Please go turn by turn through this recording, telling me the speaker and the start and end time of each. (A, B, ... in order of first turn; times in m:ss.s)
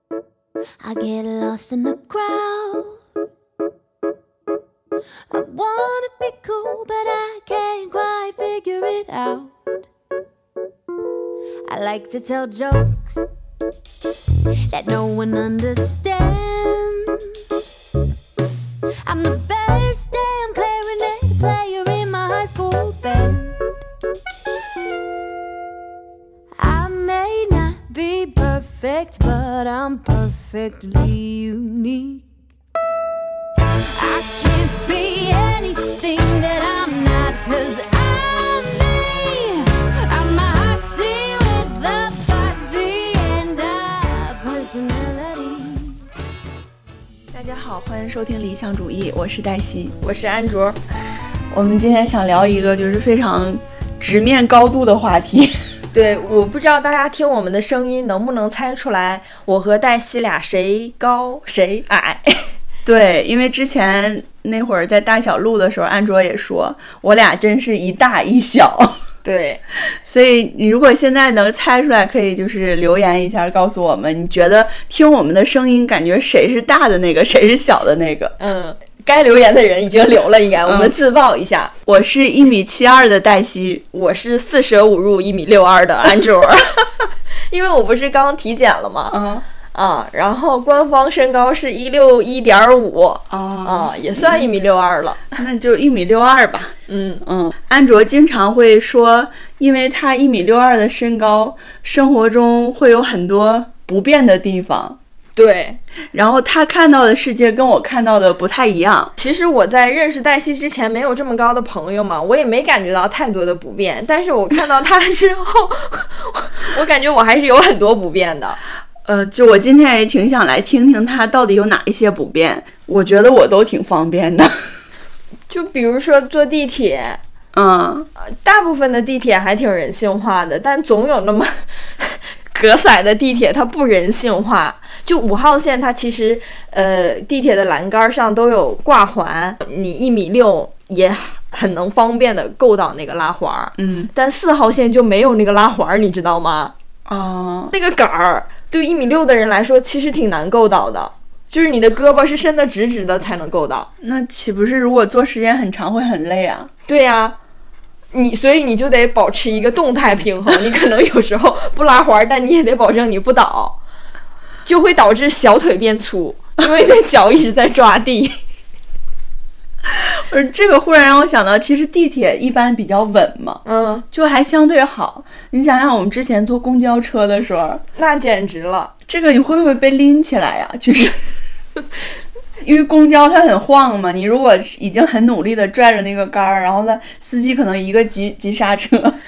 0:00.8-0:03.0 A
0:05.3-0:09.6 A
0:11.7-0:13.2 A
0:14.7-0:17.3 A
0:19.0-0:23.6 A
0:26.6-0:32.2 A
0:34.0-0:46.0 A
0:47.3-0:50.0 B
0:50.0-0:50.8 C
0:51.5-0:55.5 B
0:55.9-1:02.4 C
1:02.8-1:09.0 B
1:09.2-1:09.6 C
1:09.9-1:18.4 B
1:18.4-1:21.7 C
1:20.7-1:21.0 B
1:21.9-1:23.8 B
1:23.9-1:26.8 C
1:26.0-1:26.5 B
1:27.5-1:29.2 C
1:29.1-1:29.4 B
1:29.7-1:35.4 C
1:33.3-1:34.5 B
1:35.4-1:45.0 B
1:36.9-1:37.2 C
1:45.4-1:45.8 C
1:46.1-1:49.1 B
1:49.2-1:58.6 C
1:59.0-2:04.7 B
2:05.5-2:07.2 C
2:07.5-2:08.1 B
2:08.3-2:26.7 C
2:23.8-2:24.1 B
2:27.1-2:27.7 B
2:27.7-2:33.9 C
2:34.0-2:36.7 B
2:36.9-2:37.4 C
2:38.1-2:43.8 C
2:44.6-2:48.4 C
2:49.9-2:57.8 B
2:53.7-2:54.0 C
2:58.0-2:58.9 C
2:59.1-3:01.2 B
3:02.6-3:09.2 B